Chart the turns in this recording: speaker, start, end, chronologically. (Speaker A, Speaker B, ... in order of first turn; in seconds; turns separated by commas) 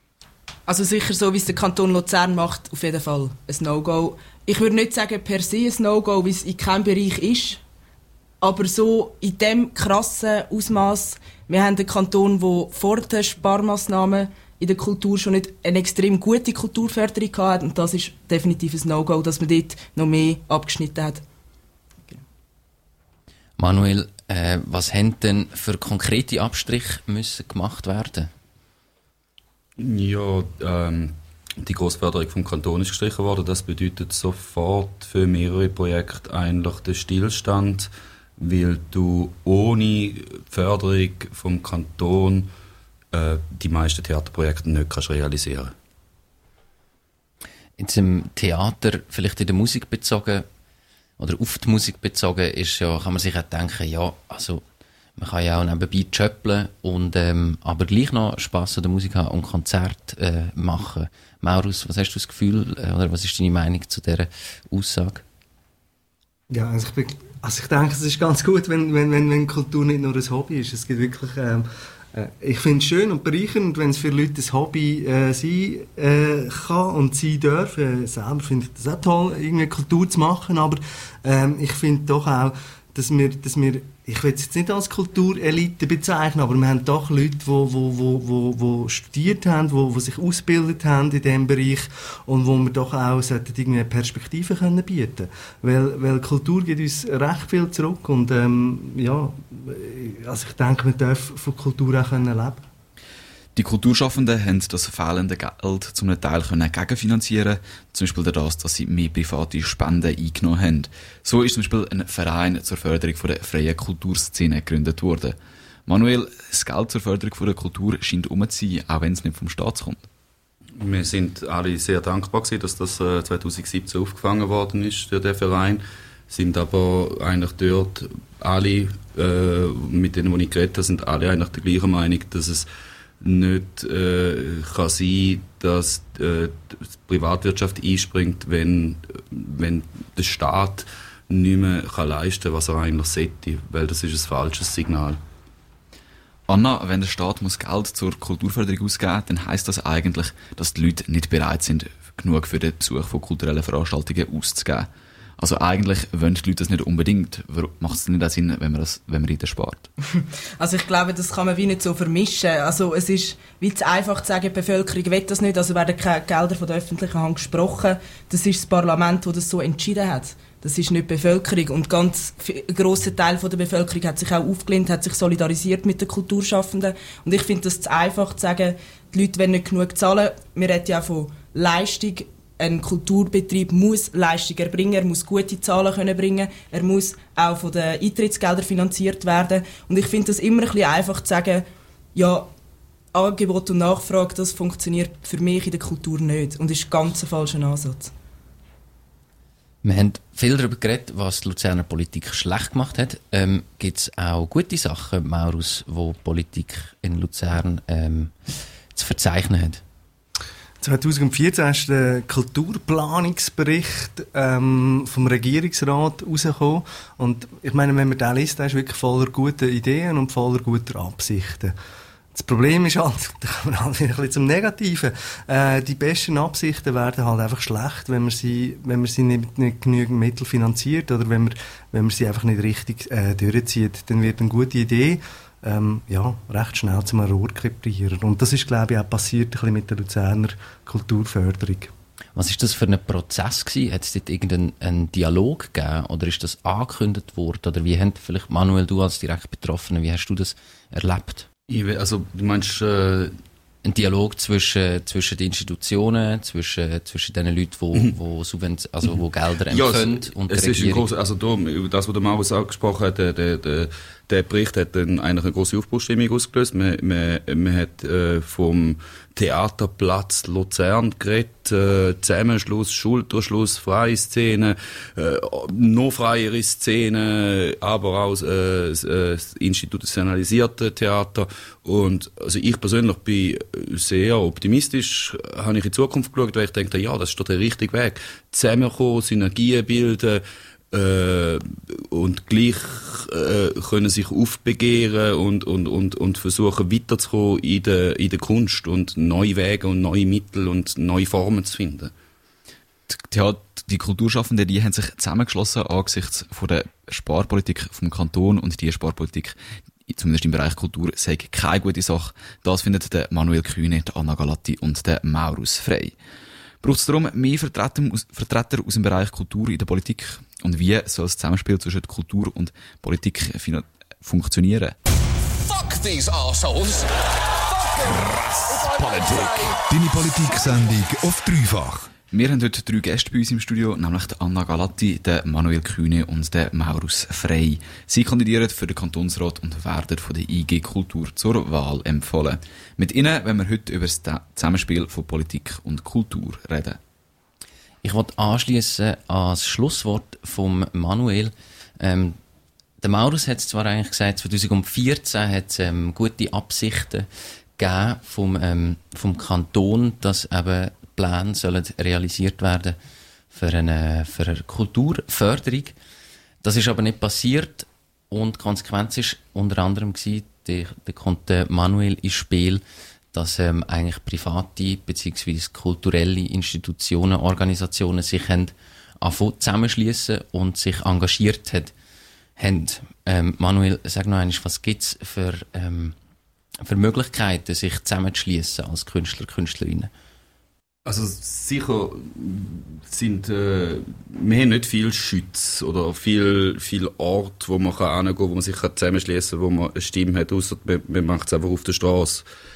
Speaker A: 0.7-7.6, Speaker A: 8.4-21.2, Speaker B: 23.6-28.3, Speaker C: 29.8-42.5, Speaker C: 43.1-45.7, Speaker B: 47.8-50.5, Speaker B: 51.2-54.6, Speaker B: 55.2-65.2, Speaker D: 66.5-102.7, Speaker E: 103.5-120.1, Speaker C: 120.8-132.7, Speaker C: 133.2-145.2, Speaker E: 146.5-159.9, Speaker A: 160.1-192.5, Speaker A: 193.1-198.1, Speaker B: 199.8-208.3, Speaker B: 208.9-209.8, Speaker D: 210.8-221.8, Speaker D: 222.3-241.9, Speaker B: 242.4-251.4, Speaker C: 251.7-253.4, Speaker B: 253.8-261.0, Speaker C: 259.7-302.1, Speaker E: 303.1-309.6, Speaker E: 310.1-316.1, Speaker E: 316.8-324.9, Speaker F: 327.8-332.1, Speaker E: 332.3-347.0, Speaker B: 348.0-352.4, Speaker B: 353.0-357.3, Speaker B: 357.8-362.9, Speaker B: 363.5-365.9, Speaker B: 366.6-372.8, Speaker B: 373.3-381.9, Speaker B: 382.6-386.1, Speaker B: 386.8-390.1, Speaker C: 391.0-402.4